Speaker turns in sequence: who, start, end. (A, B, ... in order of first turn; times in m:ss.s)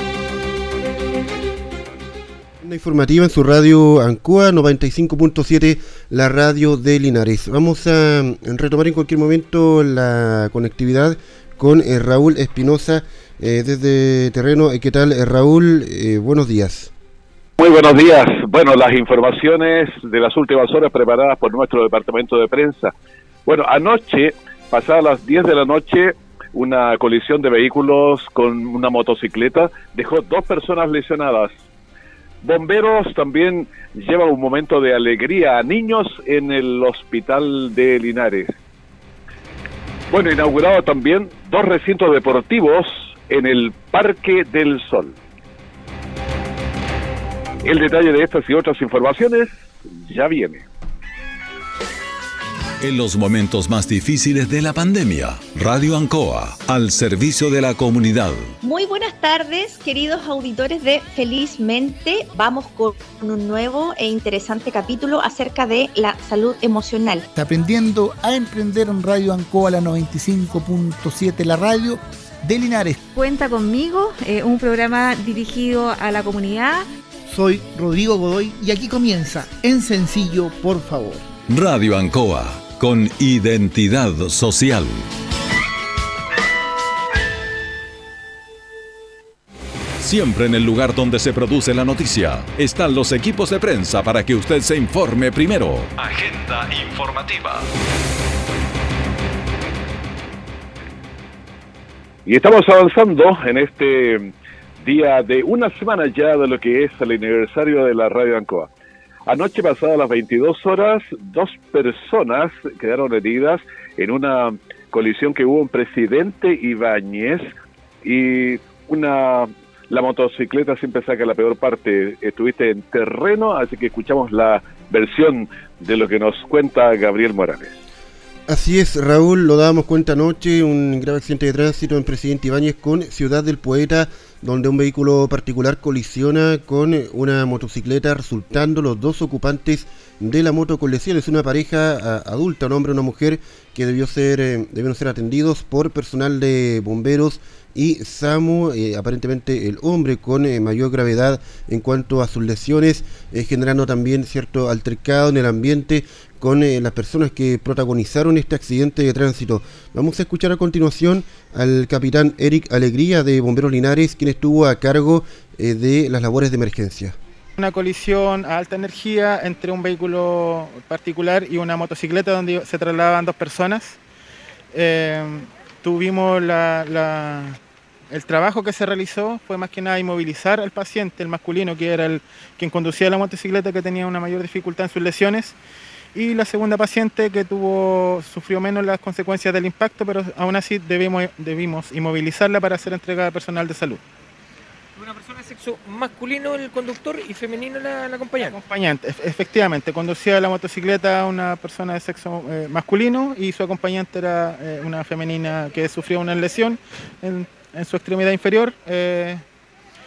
0:02.6-0:16.9 A
0:17.6-0:22.9 B
0:23.5-0:31.5 B
0:32.4-0:38.5 B
0:40.1-0:45.2 B
0:47.6-0:49.5 B
0:50.0-0:50.6 B
0:52.8-0:58.5 C
0:58.6-1:07.3 D
1:07.3-1:13.1 E
1:13.2-1:16.9 F
1:17.3-1:21.3 E
1:21.5-1:25.1 C
1:30.0-1:37.7 C
1:42.3-1:48.7 B
1:49.3-1:57.5 B
1:58.0-2:07.8 B
2:08.5-2:47.2 A
2:47.6-2:54.0 G
2:54.7-2:57.6 G
2:58.1-3:05.6 G
3:06.2-3:14.0 G
3:15.0-3:18.6 H
3:18.5-3:29.4 G